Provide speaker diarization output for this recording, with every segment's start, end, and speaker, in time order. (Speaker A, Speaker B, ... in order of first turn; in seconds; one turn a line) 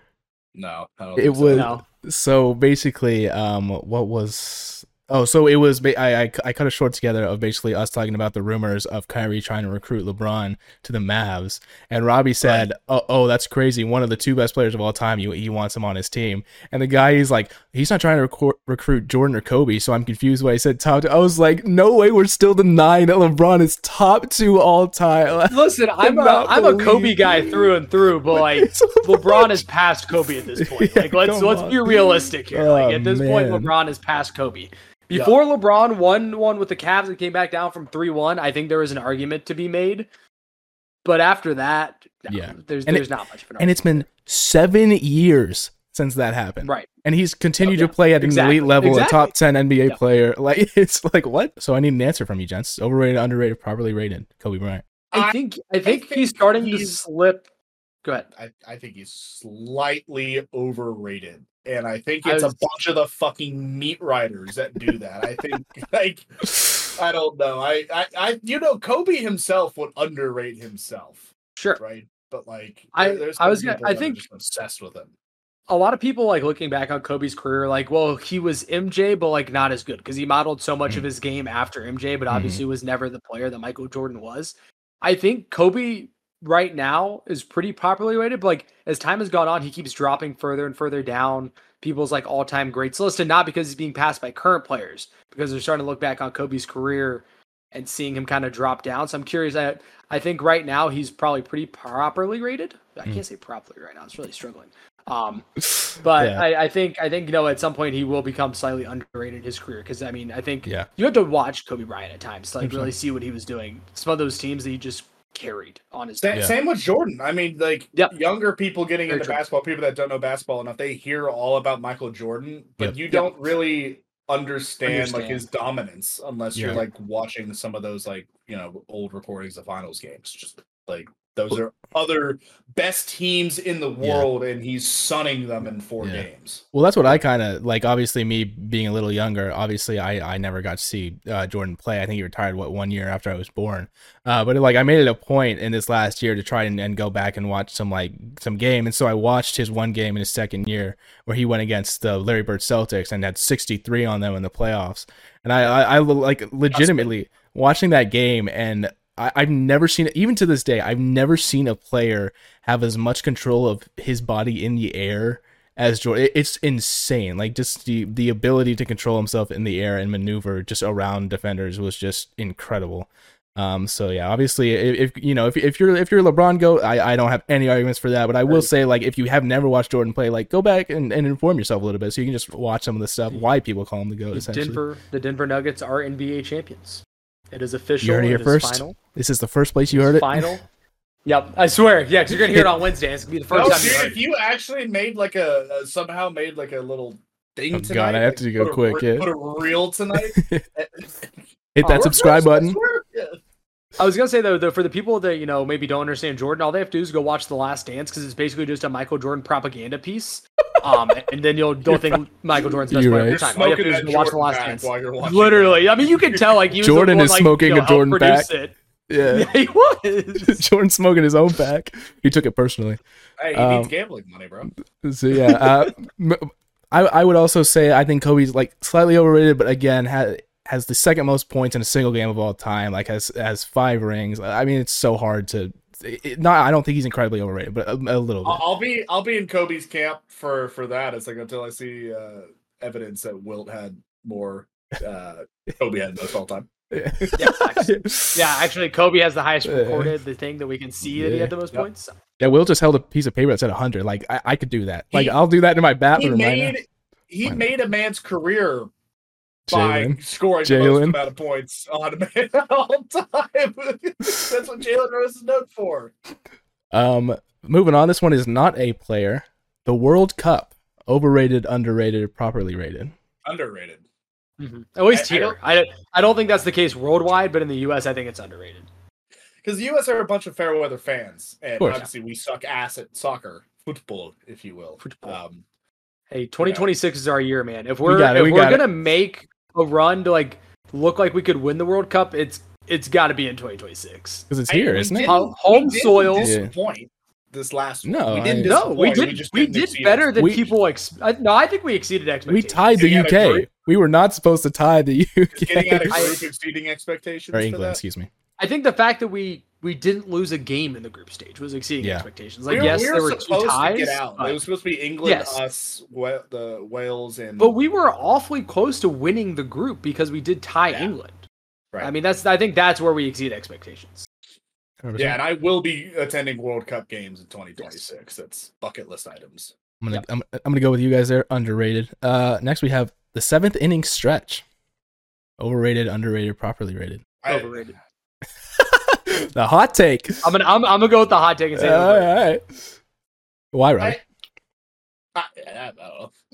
Speaker A: 0.5-1.7
Speaker B: 1.2-27.7
Speaker C: 1.5-1.8
Speaker A: 12.4-12.7
Speaker C: 25.5-40.1
Speaker B: 28.3-29.6
Speaker B: 30.6-33.7
Speaker C: 41.0-44.1
Speaker B: 42.3-43.1
Speaker B: 43.6-54.8
Speaker C: 46.6-46.9
Speaker C: 47.6-49.4
Speaker A: 55.1-57.0
Speaker C: 55.1-57.5
Speaker A: 58.4-75.1
Speaker C: 62.2-62.6
Speaker C: 73.0-74.2
Speaker C: 75.7-105.5
Speaker B: 82.3-82.6
Speaker C: 106.0-116.5
Speaker B: 106.2-106.5
Speaker B: 112.6-112.9
Speaker A: 116.2-137.1
Speaker C: 119.1-119.4
Speaker C: 123.1-123.3
Speaker C: 124.9-125.4
Speaker B: 126.5-126.8
Speaker B: 134.0-134.3
Speaker B: 136.0-184.8
Speaker A: 156.7-157.1
Speaker C: 184.3-189.0
Speaker B: 188.0-190.6
Speaker C: 189.9-190.6
Speaker C: 191.2-194.2
Speaker B: 192.3-192.7
Speaker A: 193.5-201.3
Speaker B: 197.7-199.3
Speaker B: 200.1-200.6
Speaker B: 201.8-202.8
Speaker C: 201.8-202.2
Speaker A: 201.8-203.4
Speaker C: 204.0-220.6
Speaker B: 211.9-212.2
Speaker B: 212.9-213.4
Speaker A: 213.0-216.6
Speaker B: 216.8-218.5
Speaker B: 219.1-219.5
Speaker B: 220.5-223.0
Speaker A: 223.4-224.7
Speaker B: 223.5-223.9
Speaker B: 225.0-238.6
Speaker A: 238.4-246.7
Speaker B: 246.9-248.5
Speaker C: 247.4-252.1
Speaker B: 249.6-250.1
Speaker B: 251.0-251.6
Speaker B: 252.4-256.8
Speaker A: 256.1-258.9
Speaker B: 259.7-261.2
Speaker A: 259.7-266.1
Speaker B: 266.9-273.1
Speaker A: 273.4-274.1
Speaker C: 274.6-278.9
Speaker A: 275.1-275.6
Speaker A: 279.6-285.6
Speaker C: 285.0-285.4
Speaker C: 286.3-294.5
Speaker A: 286.6-286.9
Speaker B: 288.0-289.0
Speaker B: 294.5-295.4
Speaker A: 294.7-300.4
Speaker C: 295.2-296.5
Speaker B: 296.4-296.7
Speaker B: 298.0-299.0
Speaker C: 298.6-303.0
Speaker B: 300.4-300.7
Speaker B: 302.5-306.4
Speaker A: 303.0-303.7
Speaker A: 305.6-308.0
Speaker C: 306.1-306.4
Speaker B: 307.5-308.3
Speaker C: 308.6-314.6
Speaker B: 312.0-313.0
Speaker A: 312.7-317.8
Speaker C: 315.2-315.6
Speaker C: 317.6-321.4
Speaker C: 322.0-324.3
Speaker B: 325.0-325.4
Speaker A: 325.2-329.8
Speaker B: 330.0-334.6
Speaker B: 335.6-337.2
Speaker A: 337.4-337.9
Speaker C: 337.5-338.0
Speaker B: 338.8-340.5
Speaker C: 340.4-342.3
Speaker B: 341.8-342.8
Speaker B: 343.7-344.2
Speaker A: 345.4-346.3